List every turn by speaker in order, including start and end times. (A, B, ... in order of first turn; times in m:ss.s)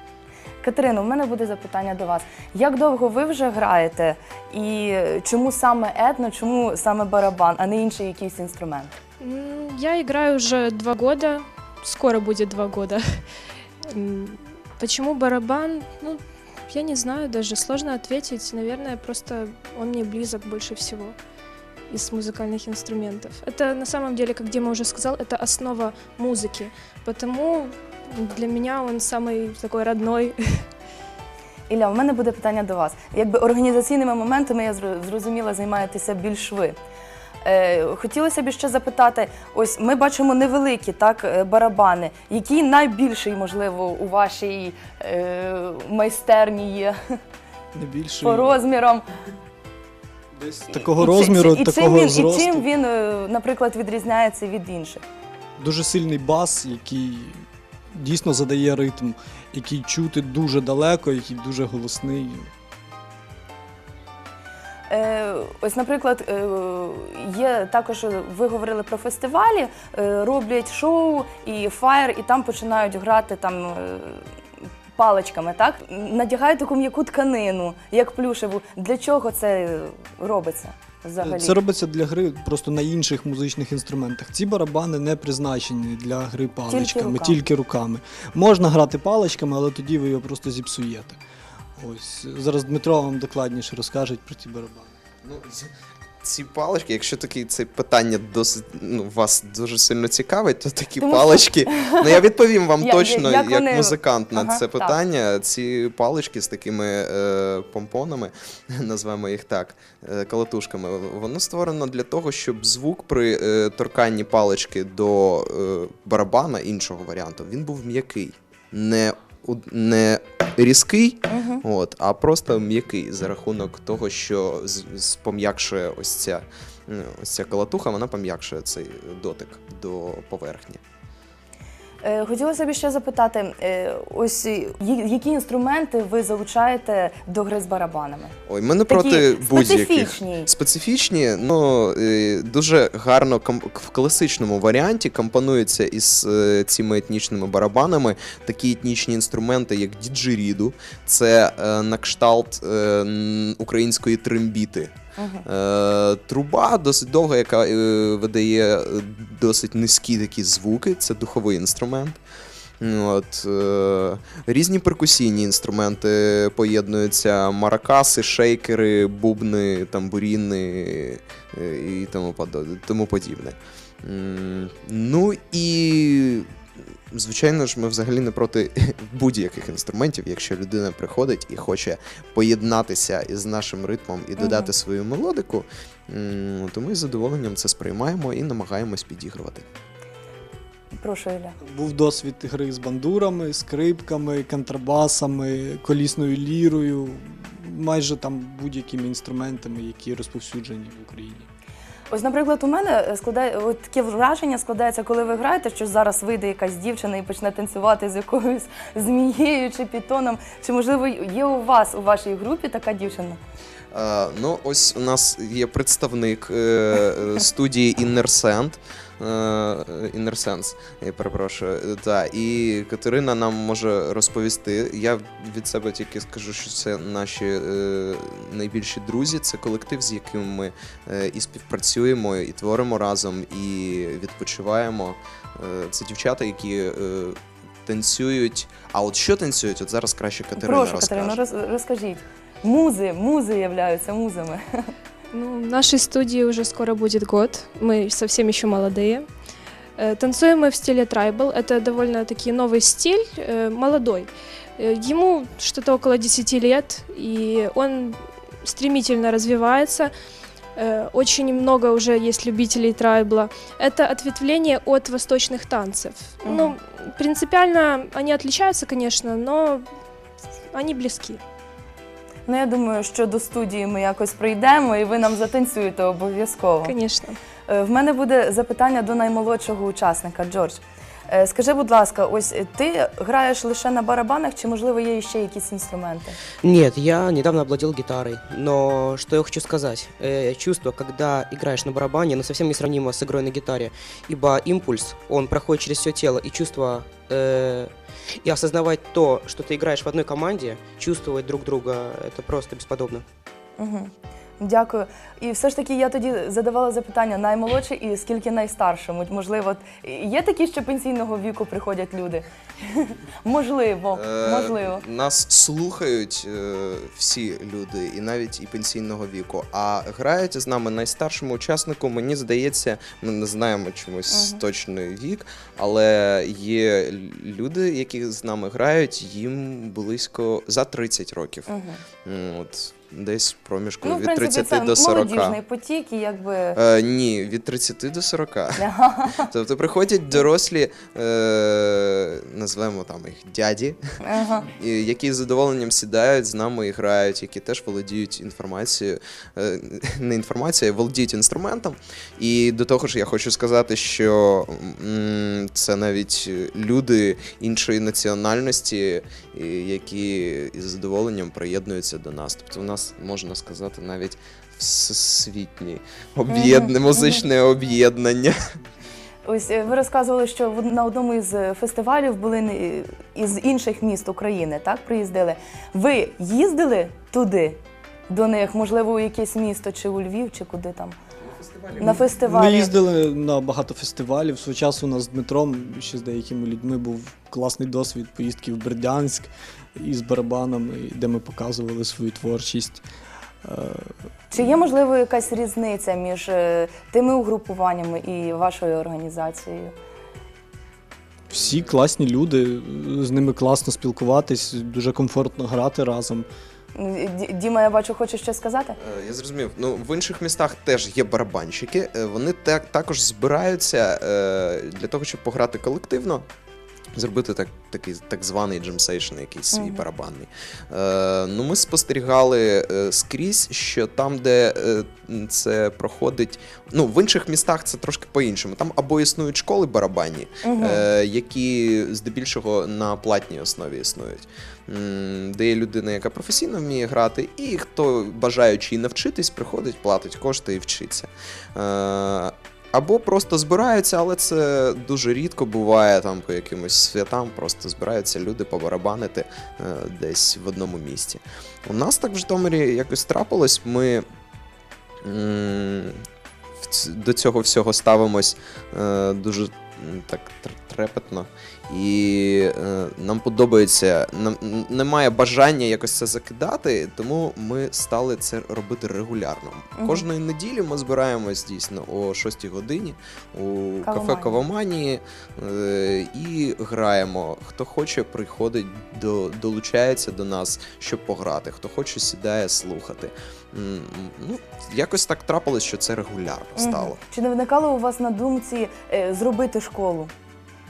0:00.6-0:09.0 A
0:09.2-0:13.2 B
0:13.8-0:21.1 B
0:21.9-0:30.7 B
0:31.7-0:36.8 A
0:37.4-0:47.2 A
0:47.7-0:48.6 C
0:48.2-0:49.0 A
0:50.3-0:52.6 C
0:50.7-0:55.0 A
0:55.6-1:02.5 C
1:04.9-1:14.3 A
1:15.0-1:21.6 A
1:21.2-1:31.2 C
1:26.7-1:27.4 A
1:31.8-1:34.9 C
1:35.2-2:10.8 D
1:41.0-1:42.2 A
1:42.8-1:45.0 A
2:01.3-2:01.6 A
2:12.0-2:18.3 A
2:18.5-2:42.2 D
2:18.9-2:20.5 A
2:35.2-2:35.4 A
2:42.8-3:09.6 D
3:04.4-3:04.7 A
3:11.0-3:11.6 A
3:11.6-3:21.5 C
3:22.1-3:33.4 A
3:33.9-4:01.4 D
4:00.6-4:04.9 A
4:05.3-4:09.2 B
4:10.0-4:20.1 B
4:20.7-4:29.9 B
4:26.4-4:26.8 A
4:30.7-4:31.4 B
4:32.5-4:36.9 A
4:36.8-4:37.4 B
4:37.7-4:46.4 A
4:46.6-5:03.2 E
5:03.8-5:15.0 A
5:14.1-5:31.7 D
5:24.3-5:24.6 A
5:31.7-5:32.0 A
5:32.2-5:35.6 D
5:34.0-5:36.8 A
5:36.7-5:44.0 D
5:38.8-5:39.5 A
5:44.2-5:44.7 A
5:44.6-6:08.6 D
6:06.5-6:07.4 A
6:09.5-6:21.2 A
6:21.4-6:22.3 D
6:22.0-6:22.9 A
6:22.0-6:33.0 C
6:33.6-6:34.1 C
6:34.5-6:39.9 A
6:41.5-6:46.4 C
6:41.6-6:41.9 D
6:46.9-6:49.0 A
6:49.0-6:56.5 D
6:57.1-7:34.2 D
6:59.7-7:00.0 A
7:10.6-7:11.0 A
7:35.2-7:36.2 D
7:36.8-8:07.2 D
7:49.9-7:50.2 A
7:54.0-7:54.6 A
8:06.8-8:10.3 A